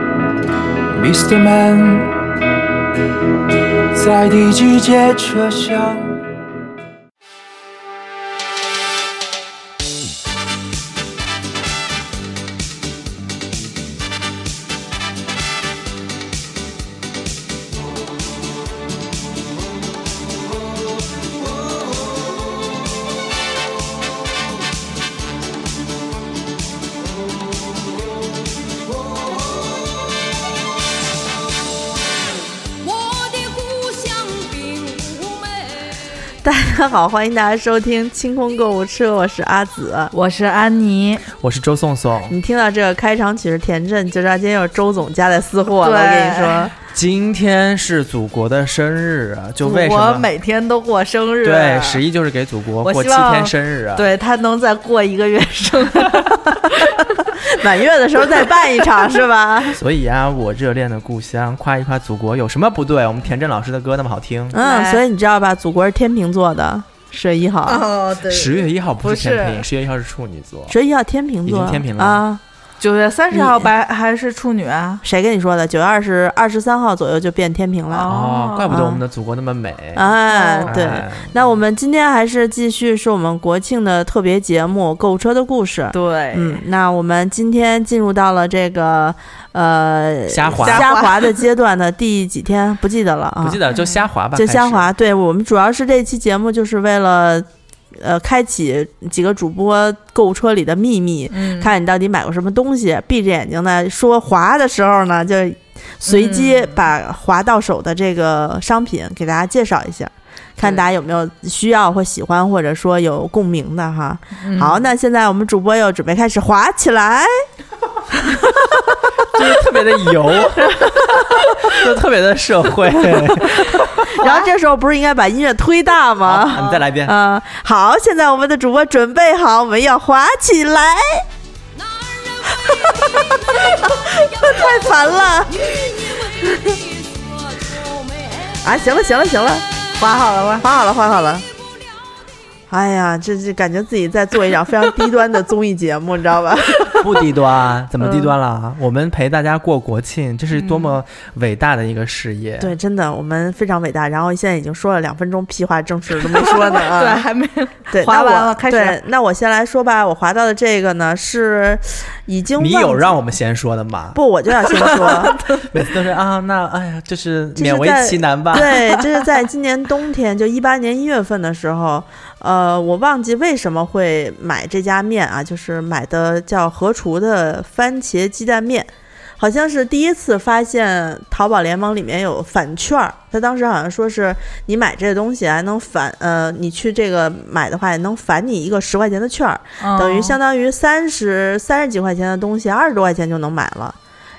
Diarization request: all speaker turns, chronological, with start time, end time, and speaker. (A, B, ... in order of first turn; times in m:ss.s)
0:00.9-0:02.1 A
0:03.9-0:06.2 A
0:32.9-0:35.8 B
0:36.4-0:40.1 C
0:40.1-0:41.2 D
0:41.3-0:42.4 E
0:42.3-0:46.7 C
0:45.8-0:46.7 D
0:46.9-0:50.3 E
0:49.6-0:52.0 D
0:51.4-0:54.1 E
0:52.8-0:57.4 D
0:57.5-0:59.8 C
0:58.3-0:58.8 D
0:59.7-1:04.6 E
1:04.5-1:07.8 C
1:04.6-1:05.0 D
1:07.6-1:09.6 D
1:08.3-1:10.8 E
1:10.7-1:12.4 C
1:11.4-1:12.2 E
1:12.8-1:15.0 D
1:13.3-1:13.7 C
1:15.0-1:18.1 C
1:17.9-1:18.7 D
1:18.0-1:20.1 E
1:18.7-1:19.0 C
1:19.9-1:33.6 C
1:20.3-1:20.8 D
1:20.7-1:21.4 E
1:25.9-1:26.6 D
1:30.3-1:30.9 E
1:30.6-1:31.4 D
1:33.4-1:34.9 E
1:34.3-1:57.4 C
1:41.3-1:41.7 D
1:46.1-1:46.8 D
1:50.6-1:50.9 D
1:54.4-1:54.8 D
1:58.3-1:59.0 C
1:59.2-2:04.2 E
2:00.5-2:01.4 C
2:03.1-2:03.5 C
2:04.1-2:11.3 C
2:04.2-2:04.5 D
2:06.2-2:07.1 E
2:11.8-2:13.1 B
2:12.5-2:16.6 C
2:16.6-2:18.2 B
2:18.5-2:19.6 C
2:20.0-2:20.6 D
2:20.6-2:21.5 C
2:22.7-2:27.2 C
2:27.0-2:32.7 E
2:28.0-2:28.3 C
2:30.6-2:30.9 D
2:32.6-2:37.2 C
2:36.2-2:39.0 D
2:37.9-2:43.2 C
2:42.6-2:44.2 E
2:44.1-2:45.4 C
2:44.9-2:45.6 D
2:45.5-2:48.7 E
2:47.6-3:14.0 C
2:48.6-2:49.0 D
3:09.8-3:10.4 D